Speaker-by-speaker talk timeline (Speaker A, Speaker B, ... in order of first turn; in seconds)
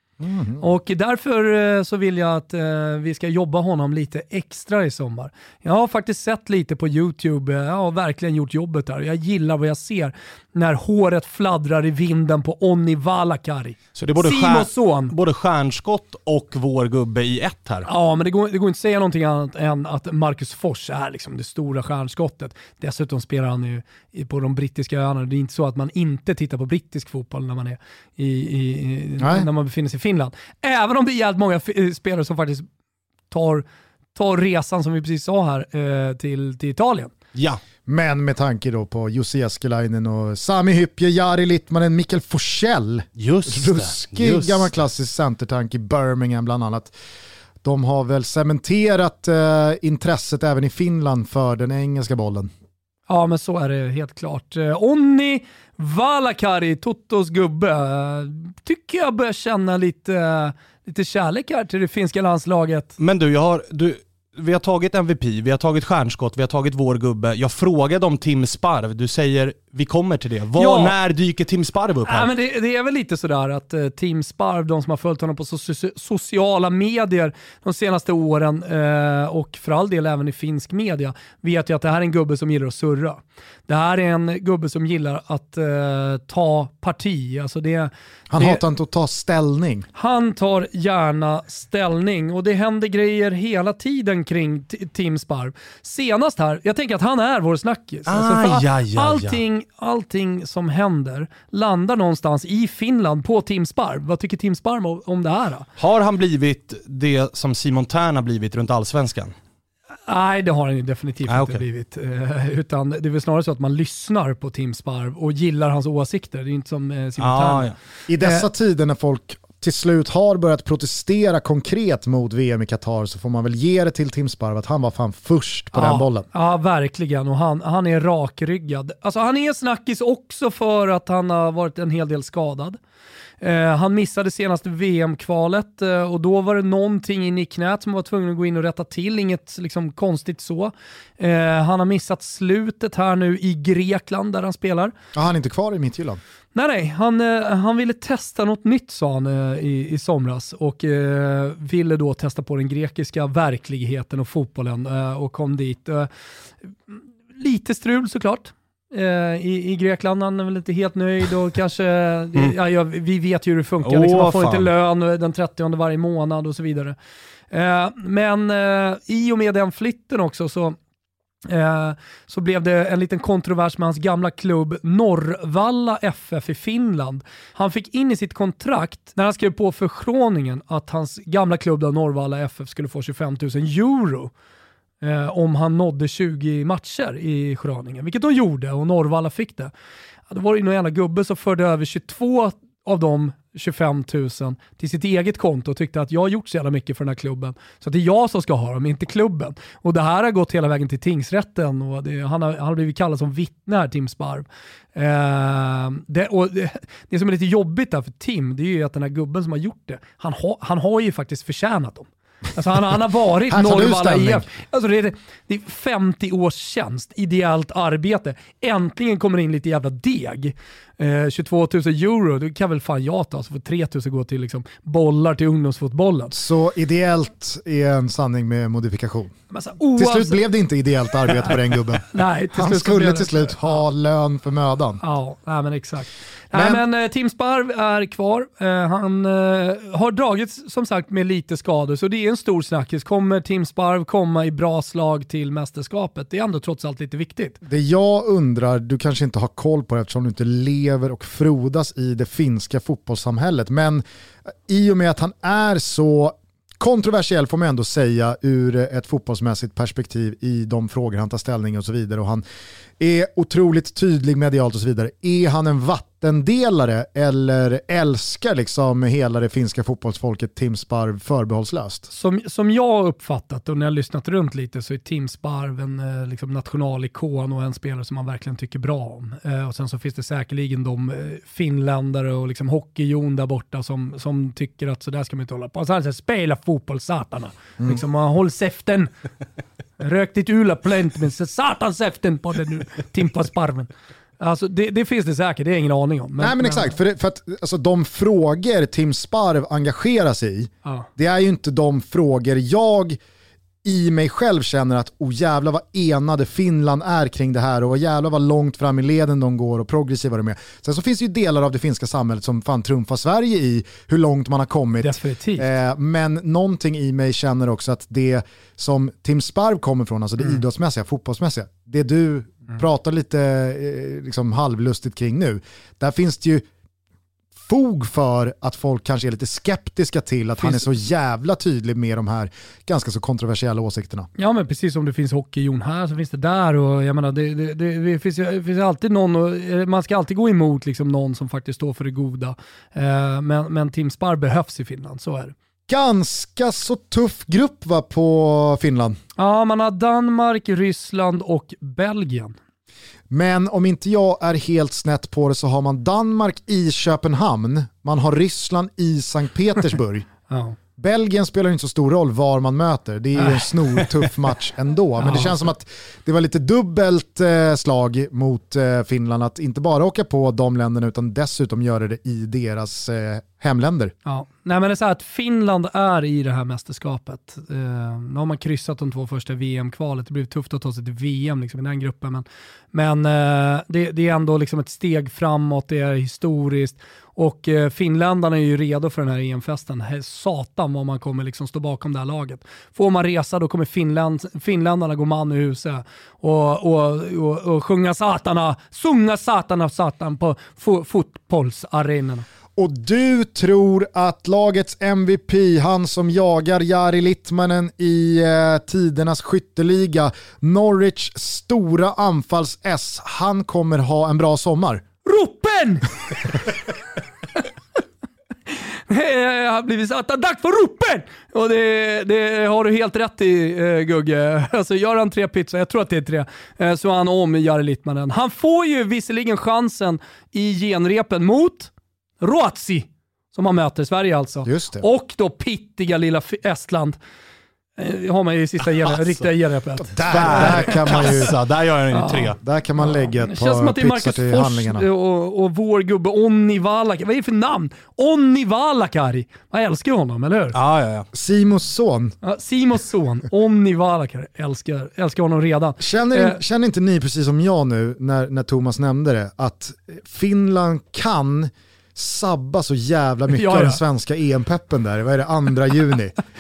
Speaker A: 0.2-0.6, 29.2-29.5, 37.9-46.9, 47.6-52.5, 88.3-89.9, 118.1-126.3, 145.1-146.2, 213.5-214.4, 226.3-229.3, 229.9-235.0, 236.5-236.8, 247.6-254.0, 254.7-262.4, 263.0-272.1, 296.4-303.2, 303.8-326.6, 327.6-334.3, 345.9-349.2, 353.3-360.3, 361.0-374.1, 402.8-415.0, 434.6-435.0, 440.1-441.5, 442.6-445.1, 451.3-452.4, 456.0-466.4
Speaker B: 0.6-15.1, 17.9-32.6, 33.3-37.1, 53.1-62.9, 70.6-70.9, 72.0-88.6, 89.9-105.7, 110.1-117.7, 118.2-118.4, 125.7-132.8, 133.4-144.9, 146.5-156.1, 157.3-166.9, 167.5-170.8, 171.4-184.3, 185.0-189.7, 190.3-226.3, 229.5-230.4, 232.1-233.8, 235.0-247.6, 272.1-289.1, 290.0-297.0, 315.0-315.7, 330.6-330.9, 334.4-345.5, 349.4-352.6, 360.5-360.8, 365.2-365.6, 374.2-402.5, 415.2-416.1, 418.7-437.2, 438.0-441.4, 442.1-450.8, 452.4-456.6, 463.5-464.0
Speaker C: 13.9-17.9, 37.3-37.6, 43.2-44.7, 63.0-72.3, 98.1-99.4, 105.8-109.3, 111.3-111.6, 117.2-117.7, 163.8-164.7, 440.3-442.6, 450.7-451.3